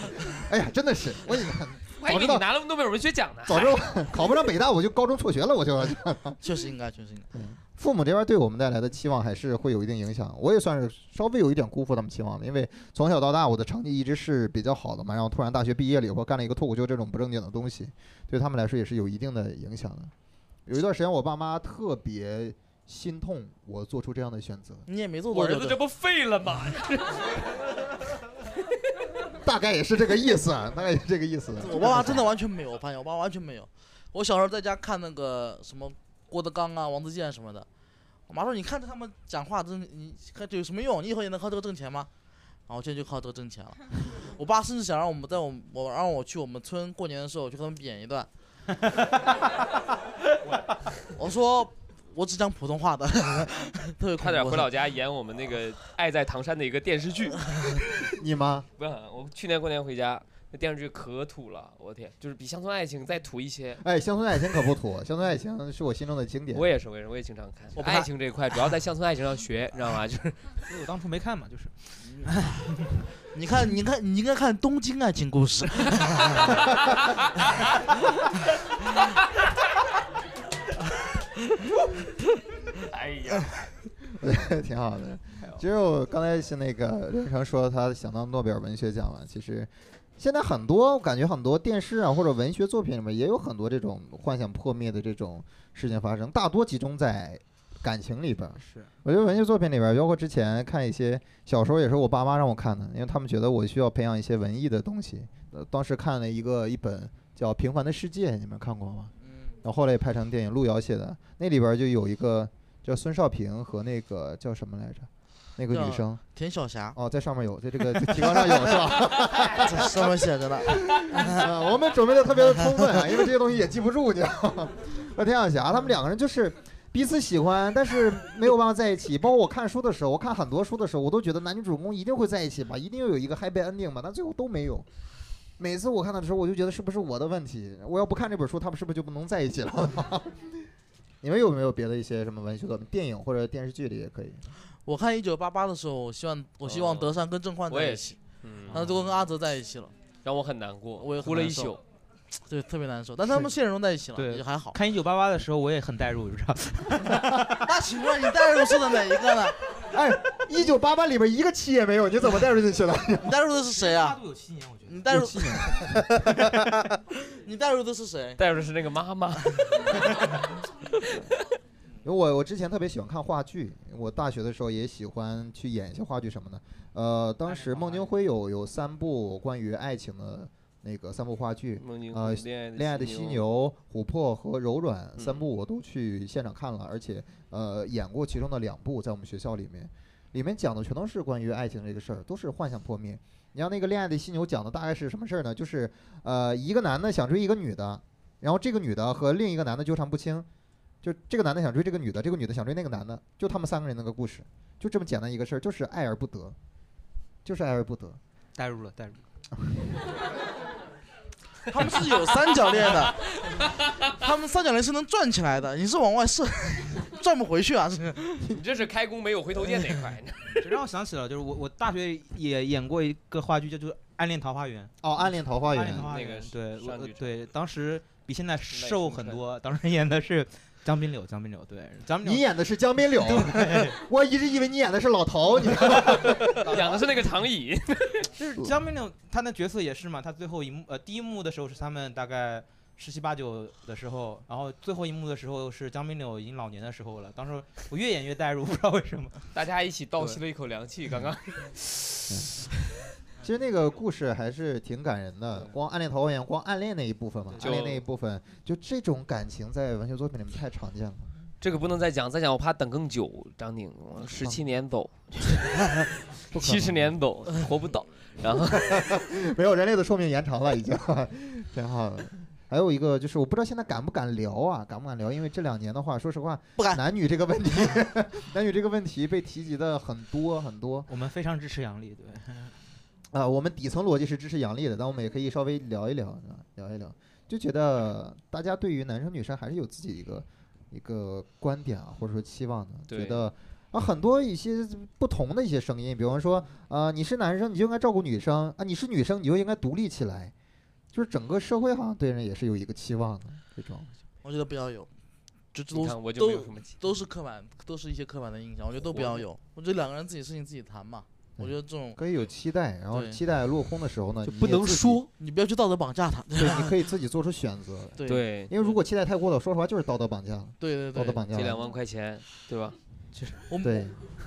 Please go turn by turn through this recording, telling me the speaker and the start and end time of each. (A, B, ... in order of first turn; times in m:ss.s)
0:00.3-0:02.4 A
0:02.0-0:03.9 B
0:03.5-0:06.4 A
0:06.4-0:07.3 C
0:07.3-0:20.1 A
0:20.6-0:24.9 A
0:24.9-0:25.8 C
0:25.3-0:27.6 B
0:29.4-0:32.3 A
0:31.6-0:37.7 C
0:38.3-0:42.1 C
0:42.7-0:48.3 C
0:51.2-0:54.7 C
0:54.2-0:57.8 B
0:58.0-0:58.7 A
0:58.8-1:03.8 B
1:03.8-1:06.7 A
1:06.5-1:10.4 B
1:07.8-1:08.1 C
1:10.6-1:13.0 D
1:12.0-1:12.3 C
1:13.3-1:16.5 C
1:22.8-1:23.7 B
1:24.1-1:49.1 A
1:38.6-1:38.9 D
1:49.2-1:49.6 C
1:49.6-1:56.2 A
1:55.7-1:57.0 C
1:56.9-2:00.1 A
1:58.1-1:58.8 C
1:59.3-2:01.4 C
2:00.7-2:14.8 A
2:02.6-2:02.9 C
2:15.6-2:20.6 A
2:21.2-2:24.4 A
2:24.8-2:28.2 C
2:26.6-2:27.1 B
2:27.7-2:28.8 B
2:28.7-2:29.1 D
2:28.7-2:29.9 C
2:30.2-2:31.8 B
2:31.0-2:31.8 C
2:32.4-2:34.8 C
2:34.1-2:37.7 D
2:37.6-2:39.5 C
2:39.9-2:43.3 A
2:43.2-2:44.2 C
2:43.7-2:45.2 D
2:44.8-2:48.4 C
2:45.1-2:46.2 A
2:48.4-2:50.5 B
2:49.7-2:49.9 C
2:52.0-3:20.5 A
2:57.5-2:58.1 D
3:01.8-3:03.4 B
3:05.2-3:05.4 B
3:21.0-3:26.6 A
3:27.4-3:28.2 A
3:28.6-3:29.2 D
3:31.7-3:33.2 C
3:33.6-3:33.9 B
3:34.2-3:38.4 C
3:38.5-3:40.6 B
3:40.6-3:44.9 D
3:45.0-3:46.1 A
3:45.7-3:52.4 D
3:46.0-3:47.3 B
3:48.7-3:49.4 B
3:52.2-3:56.6 A
3:53.2-3:54.0 D
3:56.6-3:58.3 B
3:56.6-3:57.0 D
3:58.3-4:09.4 D
4:09.5-4:12.4 B
4:13.4-4:21.3 A
4:17.6-4:18.0 B
4:21.6-4:26.0 B
4:24.2-4:24.6 A
4:26.5-4:27.2 A
4:26.5-4:29.0 B
4:28.7-4:41.1 A
4:36.8-4:37.0 C
4:41.1-4:42.8 D
4:43.3-5:00.5 A
4:53.1-4:53.4 B
5:01.1-5:04.1 A
5:04.4-5:05.1 C
5:05.7-5:12.2 C
5:05.9-5:07.1 B
5:11.6-5:15.2 A
5:13.1-5:13.4 C
5:14.4-5:15.3 B
5:15.4-5:16.9 C
5:16.5-5:21.8 A
5:18.2-5:18.4 C
5:18.3-5:18.8 B
5:20.8-5:21.5 C
5:21.5-5:23.0 B
5:23.7-5:24.1 C
5:23.8-5:24.2 A